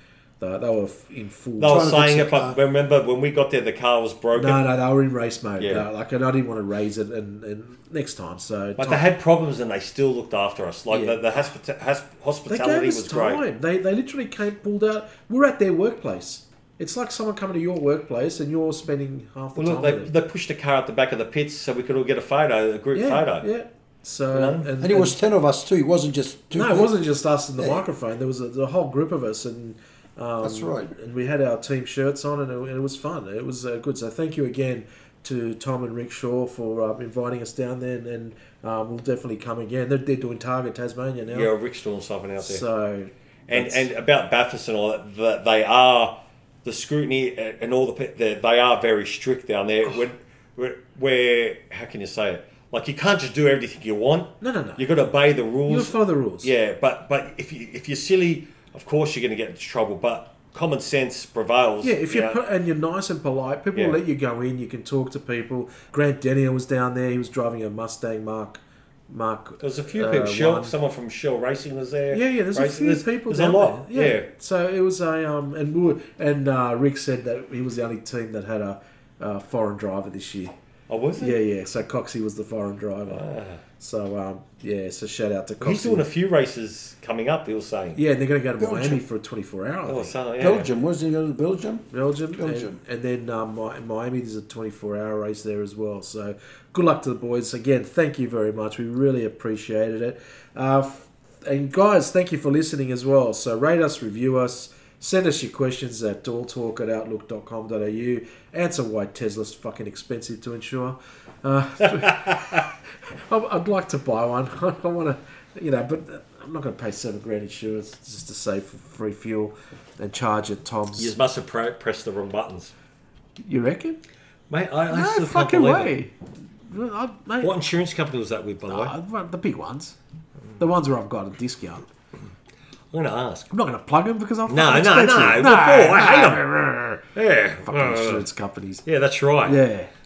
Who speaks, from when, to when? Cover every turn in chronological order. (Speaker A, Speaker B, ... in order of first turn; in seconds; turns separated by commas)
Speaker A: 0.4-2.0, Speaker B: 1.6-4.6, Speaker C: 1.6-2.6, Speaker A: 4.3-9.0, Speaker B: 5.6-5.8, Speaker B: 8.8-13.4, Speaker A: 10.9-11.2, Speaker A: 12.5-20.1, Speaker B: 19.6-23.5, Speaker A: 22.9-25.2, Speaker B: 24.3-24.7, Speaker C: 24.8-26.9, Speaker A: 26.5-41.5, Speaker C: 30.4-30.9, Speaker B: 41.3-42.6, Speaker A: 42.4-43.9, Speaker B: 43.5-62.4, Speaker A: 54.4-54.9, Speaker A: 55.7-56.5, Speaker A: 61.8-70.7, Speaker B: 69.6-74.3, Speaker A: 72.1-80.5, Speaker B: 80.9-81.4, Speaker A: 81.2-83.3, Speaker B: 83.1-83.6, Speaker A: 83.8-86.0, Speaker B: 85.6-88.0, Speaker A: 87.9-90.2, Speaker C: 88.6-89.0, Speaker B: 89.8-90.7, Speaker C: 90.4-91.8, Speaker A: 91.9-121.1, Speaker C: 92.3-92.8, Speaker B: 112.0-112.6, Speaker B: 121.0-122.7, Speaker A: 123.4-124.0, Speaker B: 124.5-125.9, Speaker A: 124.9-126.1, Speaker A: 126.7-127.5, Speaker B: 127.4-128.9, Speaker A: 128.7-129.9, Speaker A: 130.6-131.8, Speaker B: 132.9-133.5, Speaker A: 133.5-137.0, Speaker B: 134.5-136.4, Speaker B: 137.1-138.2, Speaker A: 137.7-138.8, Speaker B: 138.8-139.6, Speaker A: 139.4-139.9